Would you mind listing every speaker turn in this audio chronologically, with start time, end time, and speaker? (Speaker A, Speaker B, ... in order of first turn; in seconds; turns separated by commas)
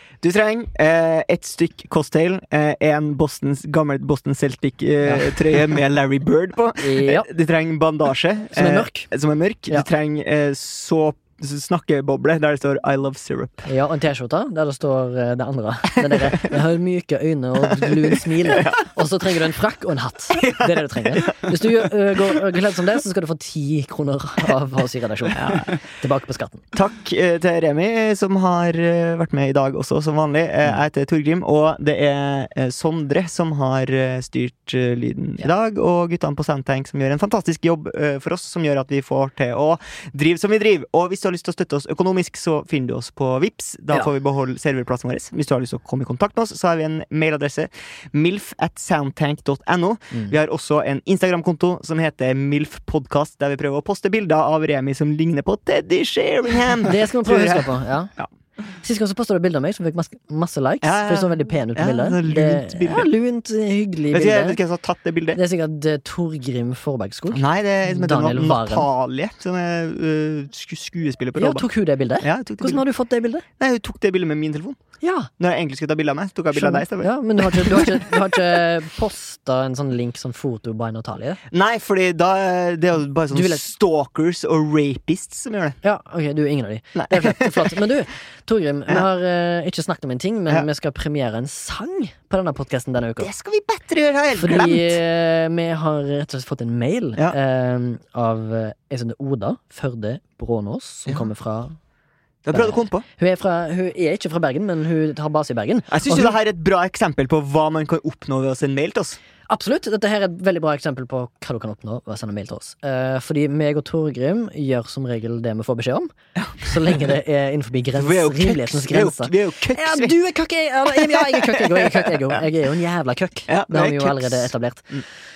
Speaker A: 0.2-13.7, Speaker B: 5.0-5.3, Speaker B: 6.8-7.3, Speaker B: 8.5-9.1, Speaker B: 13.7-26.6, Speaker A: 17.8-18.8, Speaker A: 20.3-21.5, Speaker A: 25.3-25.7, Speaker A: 26.7-58.3, Speaker B: 56.8-58.1, Speaker B: 58.8-64.6, Speaker A: 60.8-63.1, Speaker A: 64.1-65.4, Speaker B: 65.3-68.9, Speaker A: 67.3-71.7, Speaker B: 71.3-73.4, Speaker A: 72.2-72.8, Speaker A: 73.6-74.8, Speaker B: 75.0-75.3, Speaker A: 75.4-78.2, Speaker B: 76.5-81.4, Speaker A: 81.5-85.8, Speaker B: 83.3-83.6, Speaker B: 85.8-93.3, Speaker A: 87.0-87.7, Speaker A: 93.2-95.0, Speaker B: 94.3-101.8, Speaker A: 102.4-103.0, Speaker B: 102.5-106.3, Speaker A: 105.9-109.2, Speaker B: 109.5-125.0, Speaker A: 118.0-120.2, Speaker A: 120.9-122.1, Speaker A: 123.5-125.0